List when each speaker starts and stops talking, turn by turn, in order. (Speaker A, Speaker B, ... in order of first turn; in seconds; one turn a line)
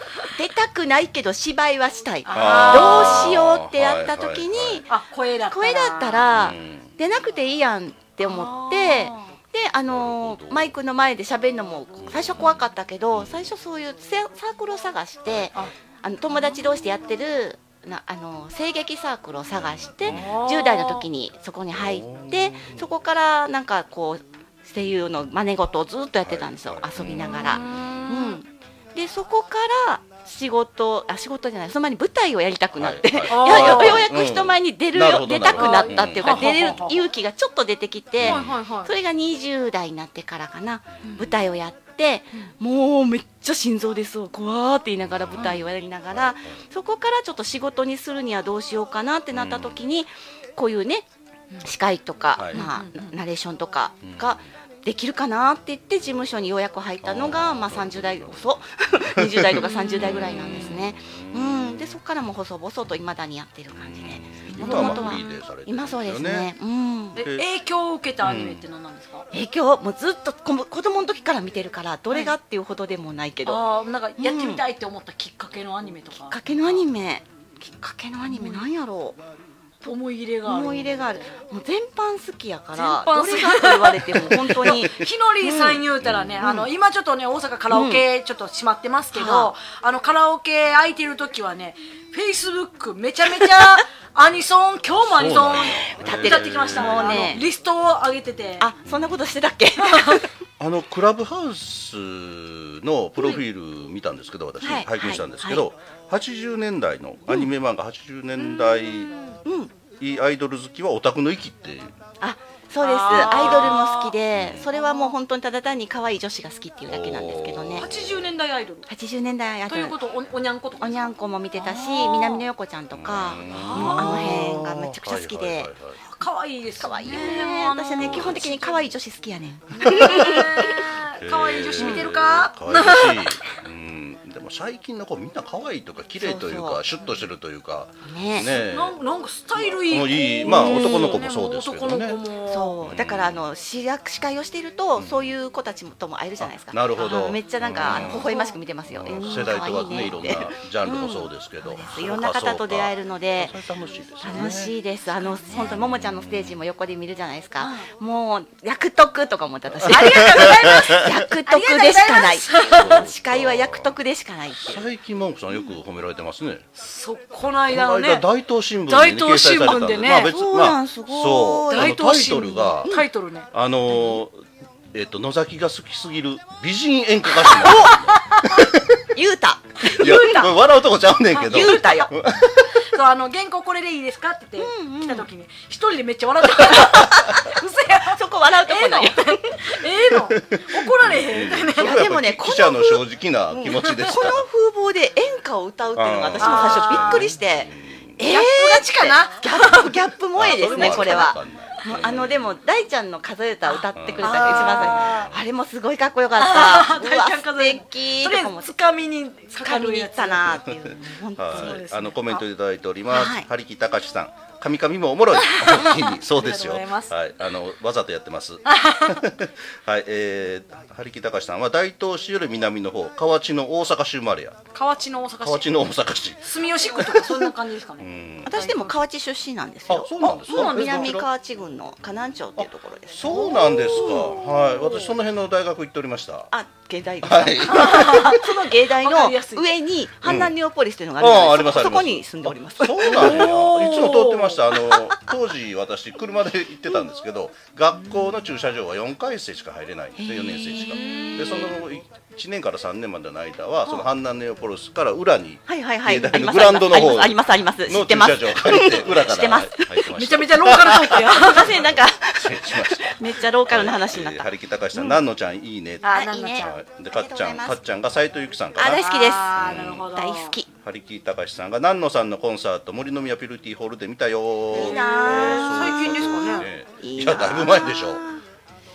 Speaker A: 0.3-4.9
Speaker B: 2.2-3.3
Speaker C: 2.3-4.8
Speaker B: 4.9-6.3
Speaker A: 5.5-51.0
Speaker C: 6.3-6.9
Speaker B: 8.2-9.3
Speaker C: 9.9-10.7
Speaker C: 12.0-12.5
Speaker C: 13.1-13.4
Speaker C: 20.0-20.4
Speaker B: 20.0-21.1
Speaker C: 21.7-22.9
Speaker C: 26.2-28.0
Speaker B: 27.2-28.4
Speaker C: 32.7-36.8
Speaker B: 33.3-34.1
Speaker B: 35.5-37.0
Speaker C: 38.2-38.5
Speaker B: 38.2-38.9
Speaker B: 41.0-41.3
Speaker C: 45.0-46.6
Speaker C: 49.3-49.8
Speaker A: 51.6-67.2
Speaker C: 52.3-52.6
Speaker B: 52.5-53.1
Speaker C: 54.0-54.5
Speaker C: 57.0-61.9
Speaker B: 59.6-60.8
Speaker C: 63.7-66.5
Speaker B: 64.5-65.2
Speaker C: 67.1-67.5
Speaker B: 67.1-69.3
Speaker C: 68.2-68.6
Speaker A: 69.3-73.6
Speaker B: 73.4-76.8
Speaker A: 74.2-74.6
Speaker A: 76.3-79.2
Speaker B: 78.3-78.7
Speaker B: 79.8-80.9
Speaker A: 80.4-85.8
Speaker B: 82.7-98.7
Speaker C: 84.7-85.0
Speaker C: 86.0-86.3
Speaker A: 86.4-86.7
Speaker A: 87.7-88.0
Speaker A: 89.1-89.5
Speaker C: 94.9-97.3
Speaker A: 96.0-97.4
Speaker A: 98.6-100.3
Speaker C: 98.8-99.2
Speaker B: 99.8-100.2
Speaker C: 100.6-109.1
Speaker A: 104.6-105.6
Speaker B: 108.4-109.4
Speaker A: 109.4-109.7
Speaker C: 110.0-111.9
Speaker A: 112.2-117.9
Speaker B: 112.8-114.2
Speaker C: 113.1-114.7
Speaker B: 114.8-115.1
Speaker C: 116.8-118.3
Speaker B: 117.7-118.9
Speaker A: 118.9-119.9
Speaker B: 119.7-122.5
Speaker A: 120.8-125.7
Speaker C: 122.9-126.0
Speaker B: 123.5-124.5
Speaker B: 126.0-128.9
Speaker A: 126.8-130.9
Speaker C: 127.0-127.4
Speaker C: 128.0-128.5
Speaker B: 129.8-133.4
Speaker C: 129.8-130.4
Speaker C: 131.2-139.0
Speaker A: 131.8-132.1
Speaker A: 136.2-136.8
Speaker A: 138.0-138.5
Speaker B: 138.5-142.8
Speaker C: 139.5-142.2
Speaker A: 140.4-141.2
Speaker A: 142.5-153.5
Speaker C: 142.8-143.4
Speaker C: 144.9-145.3
Speaker C: 146.4-148.3
Speaker B: 147.8-148.6
Speaker C: 148.9-154.7
Speaker A: 154.2-164.8
Speaker B: 155.2-155.8
Speaker C: 155.7-156.6
Speaker B: 157.6-157.9
Speaker C: 159.7-161.0
Speaker B: 159.8-163.1
Speaker C: 162.7-164.0
Speaker C: 164.5-166.6
Speaker B: 166.8-168.2
Speaker C: 167.7-174.4
Speaker B: 168.9-170.3
Speaker A: 170.2-173.0
Speaker B: 171.7-173.5
Speaker C: 174.9-179.0
Speaker A: 177.5-178.0
Speaker B: 178.1-178.6
Speaker A: 179.1-180.5
Speaker C: 179.8-182.8
Speaker B: 179.8-180.5
Speaker A: 181.4-182.1
Speaker B: 182.9-191.9
Speaker A: 184.6-185.3
Speaker A: 186.7-189.6
Speaker C: 190.3-194.5
Speaker A: 191.8-208.7
Speaker C: 195.9-198.2
Speaker B: 196.4-197.3
Speaker B: 198.2-201.3
Speaker C: 200.3-202.6
Speaker B: 203.6-205.3
Speaker C: 203.9-205.4
Speaker B: 206.3-210.6
Speaker A: 209.6-211.8
Speaker C: 210.6-224.6
Speaker B: 211.5-212.4
Speaker A: 213.1-213.4
Speaker B: 215.4-217.1
Speaker B: 218.7-219.2
Speaker B: 224.7-225.7
Speaker C: 225.4-228.6
Speaker B: 226.4-228.9
Speaker A: 228.4-234.3
Speaker C: 229.9-231.3
Speaker B: 230.2-231.2
Speaker C: 232.6-236.5
Speaker B: 233.3-235.1
Speaker A: 236.5-243.5
Speaker C: 237.2-238.4
Speaker B: 237.7-238.4
Speaker B: 239.0-239.7
Speaker C: 240.2-240.5
Speaker C: 241.2-270.1
Speaker B: 243.1-244.6
Speaker A: 250.2-251.7
Speaker B: 250.8-251.7
Speaker A: 255.7-260.0
Speaker B: 260.1-261.7
Speaker A: 261.3-265.2
Speaker B: 266.0-266.7
Speaker A: 266.1-267.8
Speaker A: 268.8-269.6
Speaker B: 268.8-270.6
Speaker A: 270.1-270.7
Speaker C: 270.7-278.2
Speaker A: 274.7-276.2
Speaker B: 274.7-276.7
Speaker A: 277.0-278.4